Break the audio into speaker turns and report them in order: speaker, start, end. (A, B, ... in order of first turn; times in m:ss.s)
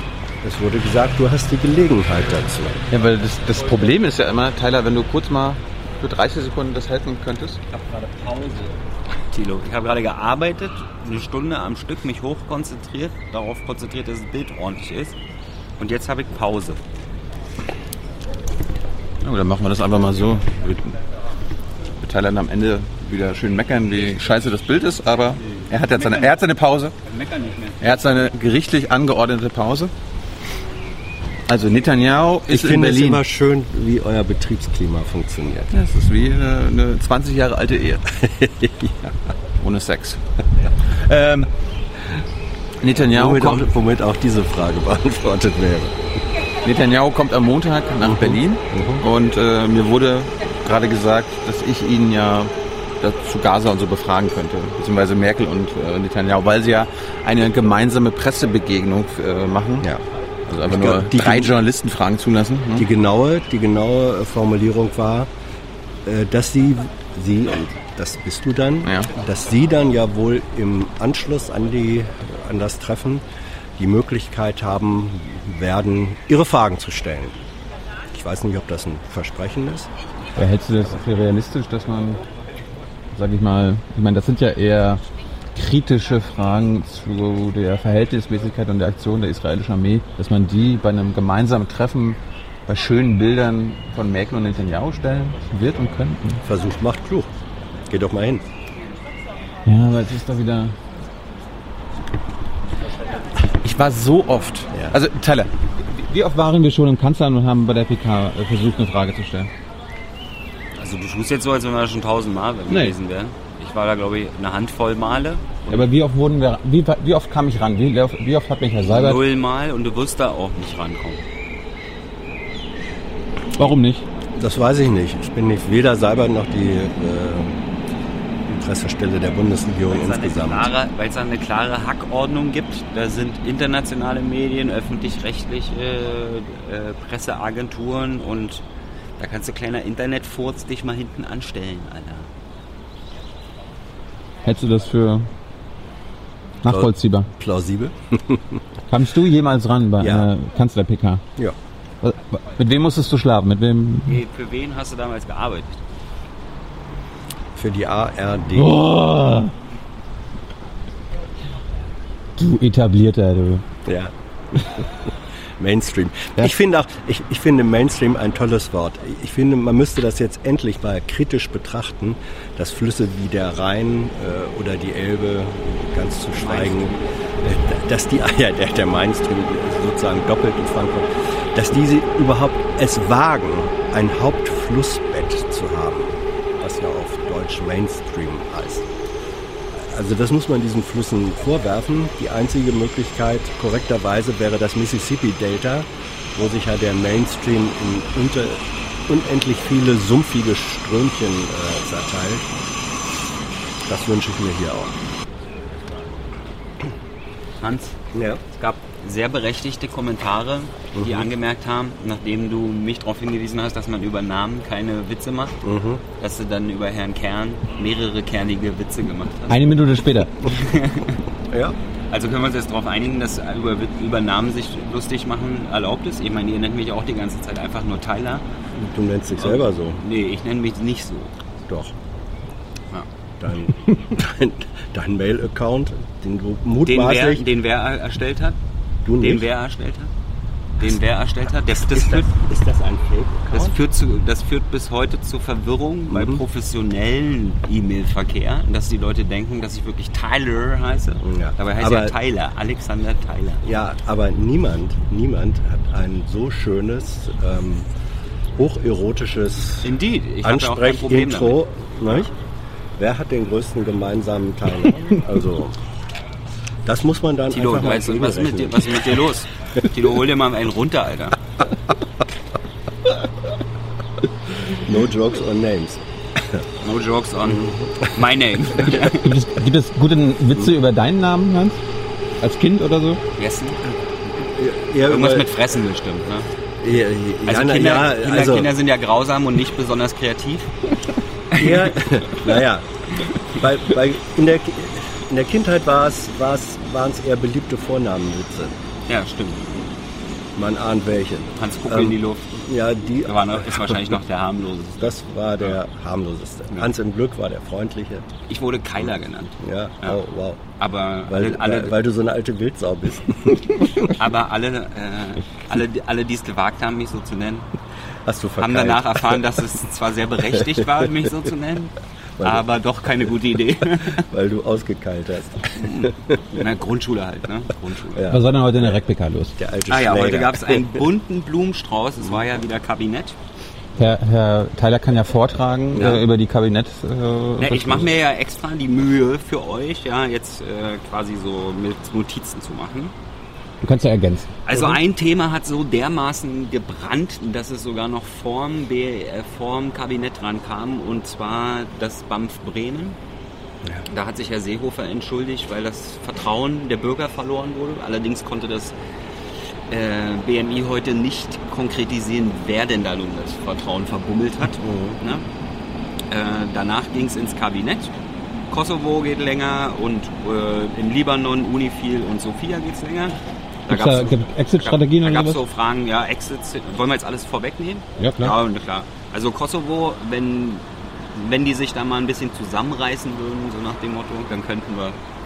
0:00.4-0:02.8 A
0:02.9-0:07.6 B
0:07.7-0:08.7 C
0:09.3-0:15.2 C
0:15.8-0:16.8 C
0:19.2-0:20.9 B
0:22.0-0:26.9 B
0:25.5-0:26.4 C
0:27.0-0:27.9 C
0:27.8-0:29.9 B
0:31.5-0:33.2 B
0:32.5-0:35.7 A
0:35.7-0:38.1 B
0:38.2-0:39.2 A
0:39.6-0:40.2 B
0:40.8-0:41.5 B
0:42.8-0:43.7 B
0:43.0-0:45.9 A
0:46.6-0:59.9 B
0:48.0-0:49.0 A
0:59.8-1:01.5 A
1:00.5-1:02.9 B
1:02.8-1:05.3 A
1:06.1-1:13.2 A
1:13.8-1:17.4 A
1:18.1-1:19.9 A
1:20.4-1:22.2 B
1:23.1-1:25.0 B
1:25.6-1:36.4 B
1:36.4-1:38.4 A
1:39.7-1:40.8 B
1:43.6-1:49.5 B
1:50.8-1:55.8 C
1:55.7-1:59.2 B
1:58.8-2:01.2 C
2:03.6-2:04.1 B
2:04.4-2:07.6 A
2:08.5-2:10.7 A
2:09.9-2:18.6 C
2:19.2-2:22.3 C
2:24.4-2:25.3 B
2:26.6-2:27.3 B
2:26.6-2:28.6 A
2:28.9-2:31.2 B
2:30.0-2:30.3 A
2:32.0-2:34.2 B
2:34.1-2:35.8 C
2:37.6-2:38.8 A
2:38.6-2:39.5 B
2:42.4-2:43.6 B
2:43.9-2:45.0 A
2:45.6-3:08.9 A
2:56.3-2:57.2 C
3:09.7-3:22.5 A
3:23.9-3:24.9 A
3:27.6-3:28.0 C
3:28.1-3:28.4 A
3:28.5-3:35.6 C
3:31.0-3:31.3 A
3:35.6-3:36.0 A
3:36.2-3:39.6 C
3:39.5-3:40.4 B
3:40.4-3:41.2 C
3:41.5-3:41.8 A
3:42.1-3:48.4 C
3:48.8-3:50.0 A
3:49.4-3:51.3 C
3:51.7-3:51.9 A
3:53.4-3:57.4 A
3:56.8-3:58.6 C
3:59.0-3:59.5 A
3:59.2-4:00.1 C
4:00.8-4:02.3 C
4:01.9-4:03.8 A
4:03.5-4:13.6 C
4:06.1-4:06.4 A
4:11.2-4:12.1 A
4:13.6-4:17.9 A
4:18.6-4:19.9 A
4:19.8-4:22.3 C
4:20.4-4:22.3 A
4:23.0-4:25.8 A
4:26.9-4:29.2 A
4:27.5-4:31.4 C
4:34.7-4:36.6 A
4:36.8-4:39.3 C
4:37.4-4:38.1 A
4:39.1-4:41.8 B
4:42.4-4:43.2 B
4:43.4-4:43.9 C
4:44.5-4:45.5 A
4:45.1-4:46.5 C
4:46.8-4:48.7 A
4:47.5-4:50.7 C
4:51.5-4:52.0 C
4:51.6-4:52.8 A
4:53.5-4:58.7 A
4:59.1-4:59.6 C
5:00.6-5:03.9 A
5:01.6-5:02.6 C
5:03.2-5:05.8 C
5:05.0-5:08.3 A
5:08.5-5:10.2 C
5:09.6-5:10.6 A
5:10.8-5:11.9 C
5:11.3-5:14.1 A
5:14.1-5:17.7 C
5:18.2-5:19.5 A
5:18.6-5:24.3 C
5:22.4-5:22.6 A
5:24.2-5:26.6 A
5:25.7-5:28.3 C
5:28.1-5:29.0 A
5:28.3-5:29.6 B
5:29.6-5:31.1 A
5:29.9-5:33.4 C
5:34.0-5:38.1 B
5:35.9-5:36.2 A
5:36.0-5:36.2 C
5:37.6-5:43.1 C
5:43.8-5:44.5 B
5:44.6-5:53.2 C
5:44.7-5:45.0 A
5:54.1-5:59.0 C
5:59.9-6:05.4 C
6:04.8-6:05.2 A
6:06.3-6:08.2 C
6:08.7-6:25.2 C
6:13.9-6:15.6 B
6:18.2-6:18.6 B